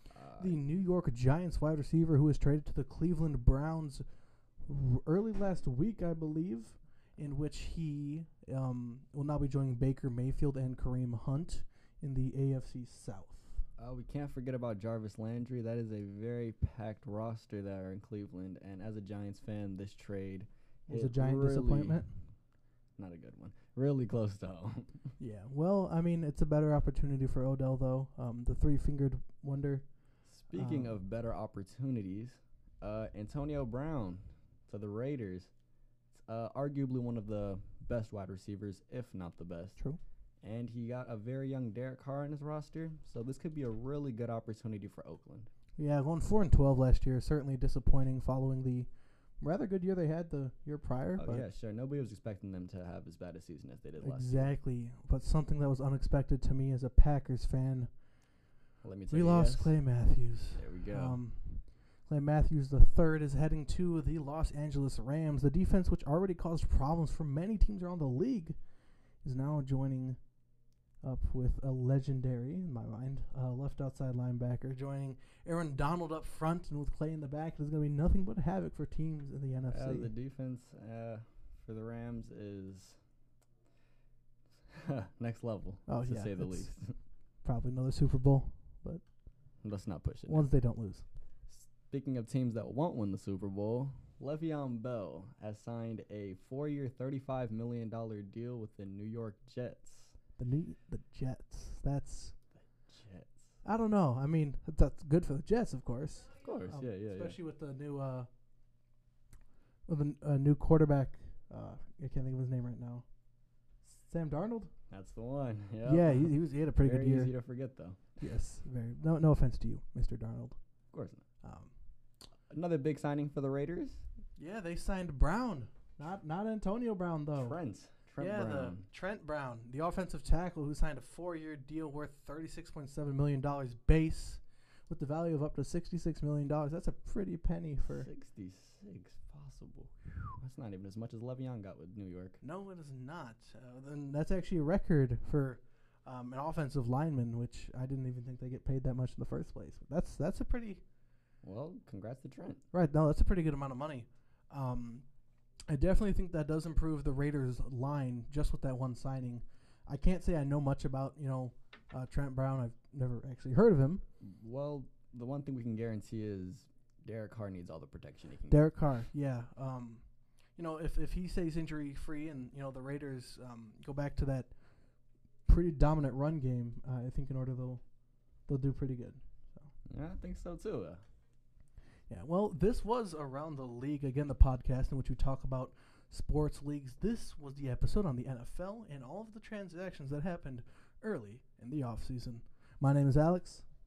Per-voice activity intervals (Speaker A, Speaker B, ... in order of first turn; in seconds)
Speaker A: 0.1-0.6, 13.8-22.1, 23.0-25.1, 30.2-35.5, 36.1-39.8, 40.4-45.5, 51.2-54.5, 58.8-59.8, 60.5-61.2, 79.7-83.0, 84.7-87.0, 89.6-90.5, 91.5-100.1, 102.9-103.5, 106.3-107.4, 114.9-118.0, 120.9-121.2, 122.5-124.0, 127.3-128.8, 137.9-142.4, 151.4-152.6, 164.2-168.6, 179.9-181.0
Speaker B: 0.4-4.0, 4.6-13.6, 20.9-22.1, 25.2-29.8, 30.5-30.9, 45.8-48.9, 49.4-51.5, 54.0-57.9, 59.1-68.5, 69.2-70.2, 71.0-80.1, 85.9-86.8, 87.4-89.0, 90.3-91.0, 100.4-102.3, 103.6-108.3, 109.9-113.0, 113.8-114.7, 115.8-117.3, 118.2-120.6, 121.4-121.7, 124.4-127.6, 128.2-138.1, 142.4-150.8, 152.7-155.0, 155.7-164.0, 168.5-170.0, 170.6-174.5, 175.5-177.8, 178.5-179.7, 182.1-193.6